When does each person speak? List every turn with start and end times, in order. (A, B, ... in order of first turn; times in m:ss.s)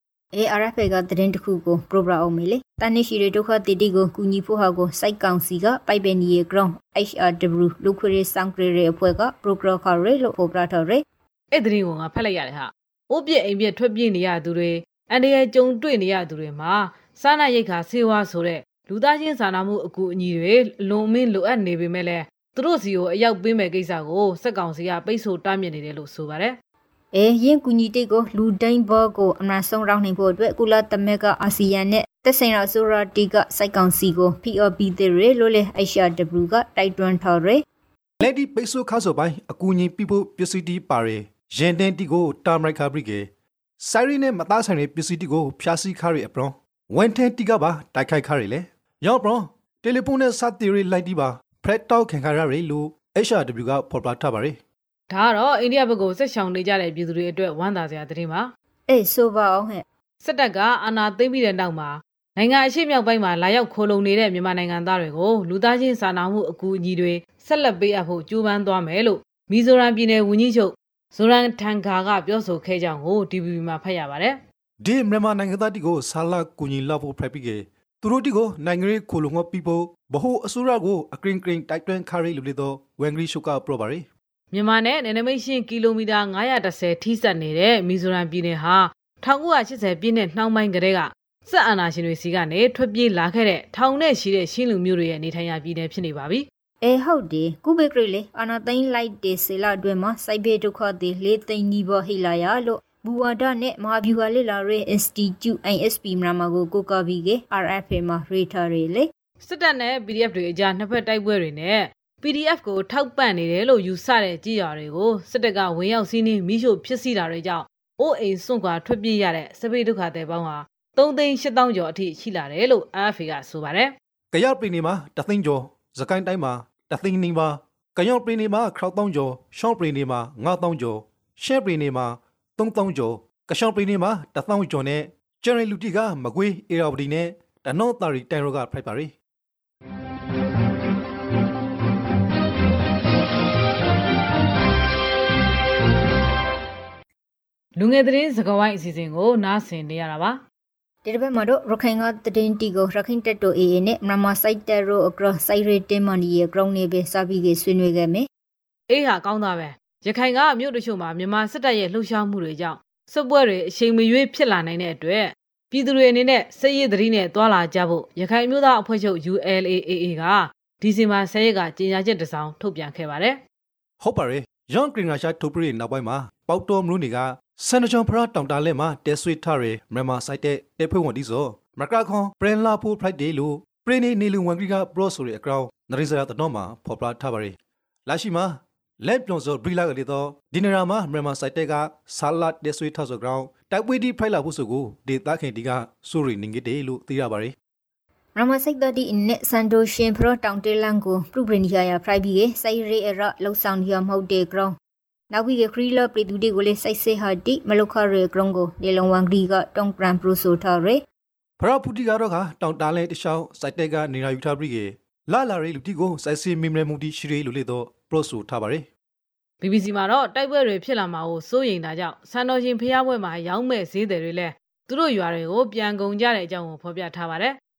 0:00.3-0:11.0 A
0:11.5-0:26.5 B
0:27.1-0:37.6 A
0:38.2-0:43.2 C
0:43.8-0:54.6 C
0:55.1-0:58.5 B
0:58.9-0:59.8 A
1:00.2-1:14.4 B
1:14.8-1:24.1 C
1:24.5-1:36.4 B
1:36.8-1:49.1 A
1:49.4-2:03.9 B
2:04.3-2:19.1 C
2:27.8-2:30.4 B
2:31.0-2:38.3 A
2:38.9-2:53.4 B
2:54.0-3:17.5 C
3:18.4-3:24.7 A
3:25.3-3:31.0 A
3:31.6-3:38.8 C
3:39.6-3:47.6 B